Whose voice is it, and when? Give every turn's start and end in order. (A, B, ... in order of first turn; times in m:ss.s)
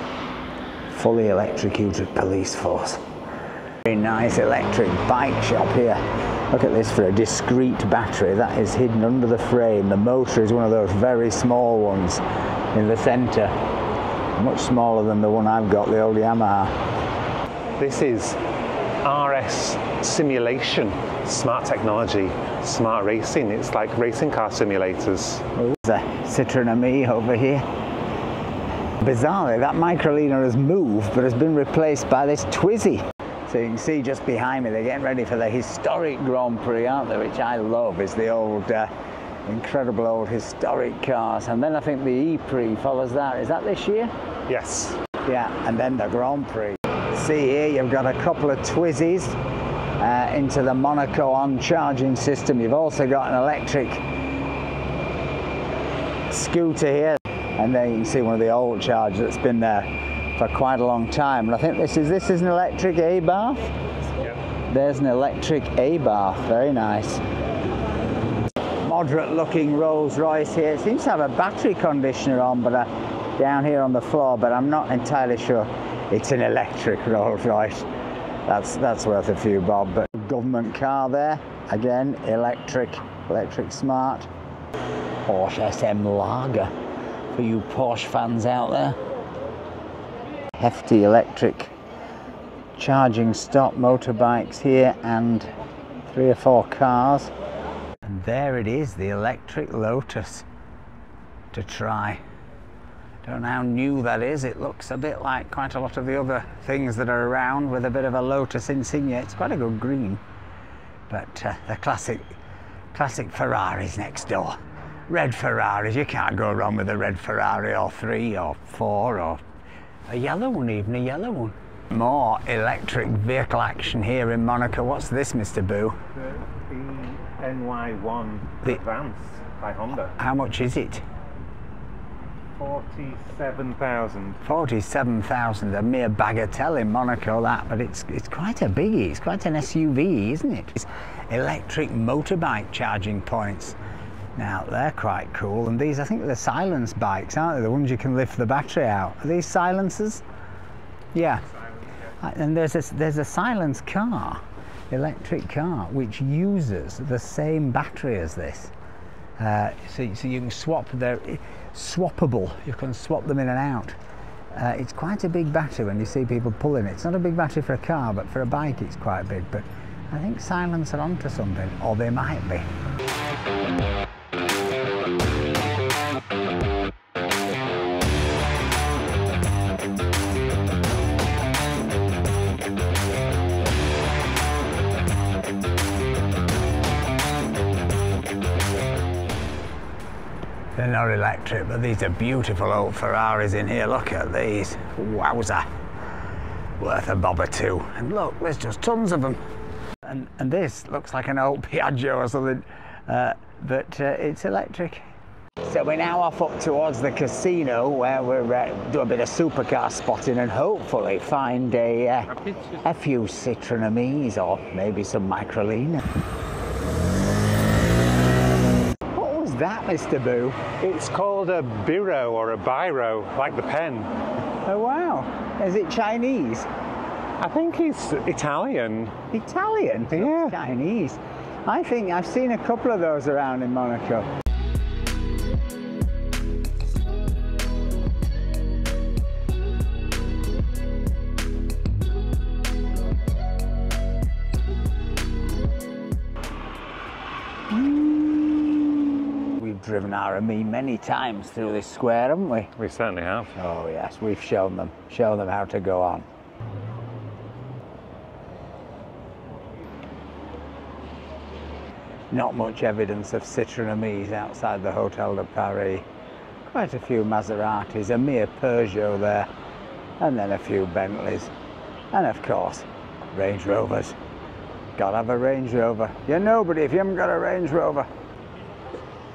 0:00.9-0:03.0 A
0:03.8-0:12.2 A
0:12.7-0:13.5 A
0:14.4-0:16.7 A
0:17.8-0:18.4 B
0:19.0-0:25.4 B
0:25.5-0:27.6 A
0:29.0-0:38.9 A
0:39.4-0:44.1 A
0:44.5-0:45.0 B
0:45.2-0:49.4 A
0:50.0-0:54.0 A
0:56.3-1:03.7 A
1:04.7-1:07.2 A
1:08.8-1:17.9 A
1:18.4-1:24.3 A
1:25.2-1:26.7 A
1:27.3-1:29.0 A
1:30.6-1:31.7 A
1:32.8-1:35.5 A
1:36.0-1:37.3 A
1:38.0-1:40.4 A
1:41.5-1:42.2 A
1:43.2-1:50.2 A
1:51.1-1:52.3 A
1:52.9-1:59.4 A
2:00.1-2:06.0 A
2:06.3-2:10.2 B
2:10.1-2:11.0 A
2:12.6-2:14.4 B
2:14.4-2:23.8 A
2:24.4-2:30.2 A
2:31.1-2:31.4 A
2:32.1-2:38.7 A
2:39.4-2:44.0 A
2:44.5-2:52.7 A
3:10.8-3:15.6 A
3:16.8-3:19.4 A
3:20.0-3:25.0 A
3:25.6-3:36.0 A
3:39.1-3:40.7 A
3:40.8-3:44.1 B
3:44.6-3:46.7 A
3:47.4-3:49.2 B
3:49.3-3:54.3 A
3:50.1-3:50.6 B
4:07.7-4:12.7 A
4:12.8-4:13.5 B
4:13.5-4:16.2 A
4:22.3-4:26.0 A
4:26.6-4:29.5 A
4:30.2-4:31.5 A
4:32.1-4:34.2 A
4:35.0-4:38.1 A